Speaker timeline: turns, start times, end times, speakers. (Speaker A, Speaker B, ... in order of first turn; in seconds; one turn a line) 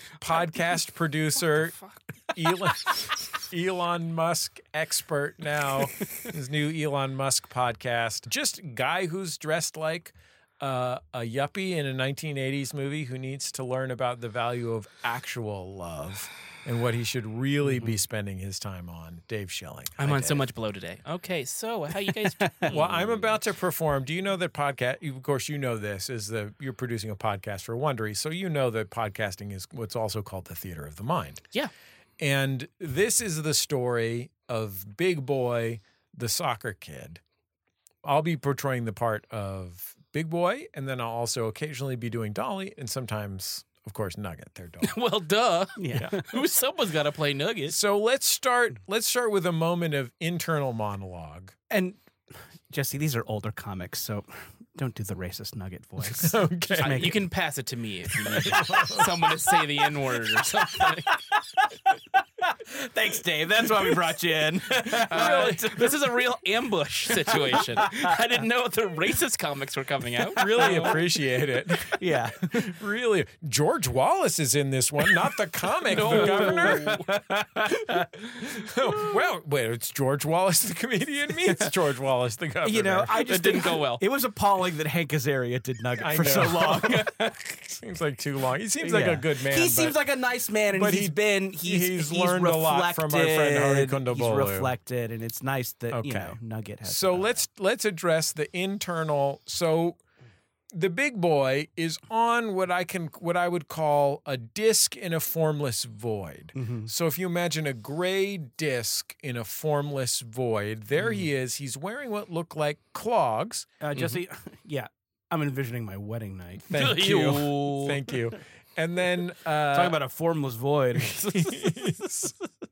Speaker A: 0.2-1.8
Speaker B: 1.5-2.0
Speaker A: 2.3-20.5
Speaker C: 17.6-18.0
Speaker B: 20.0-23.3
Speaker C: 22.4-22.7
Speaker A: 22.7-31.4
Speaker A: 32.2-37.2
Speaker A: 38.0-45.0
Speaker B: 44.8-47.8
Speaker C: 45.8-46.3
Speaker A: 47.7-51.5
Speaker C: 51.7-52.0
Speaker C: 52.7-57.2
Speaker A: 56.0-57.2
Speaker B: 56.8-61.2
Speaker A: 58.3-59.3
Speaker C: 62.4-65.9
Speaker A: 65.0-65.8
Speaker B: 65.1-70.9
Speaker C: 67.3-68.0
Speaker A: 70.4-77.0
Speaker C: 70.6-71.0
Speaker C: 72.0-72.7
Speaker B: 75.9-77.0
Speaker C: 76.1-78.1
Speaker A: 78.4-83.2
Speaker C: 82.6-87.4
Speaker B: 83.2-84.0
Speaker A: 86.0-90.0
Speaker C: 88.8-97.4
Speaker A: 90.7-94.7
Speaker A: 95.9-100.0
Speaker A: 100.7-113.7
Speaker C: 106.5-106.9
Speaker C: 113.8-116.6
Speaker A: 116.7-120.0
Speaker B: 116.7-118.0
Speaker C: 119.7-122.0
Speaker A: 121.0-122.3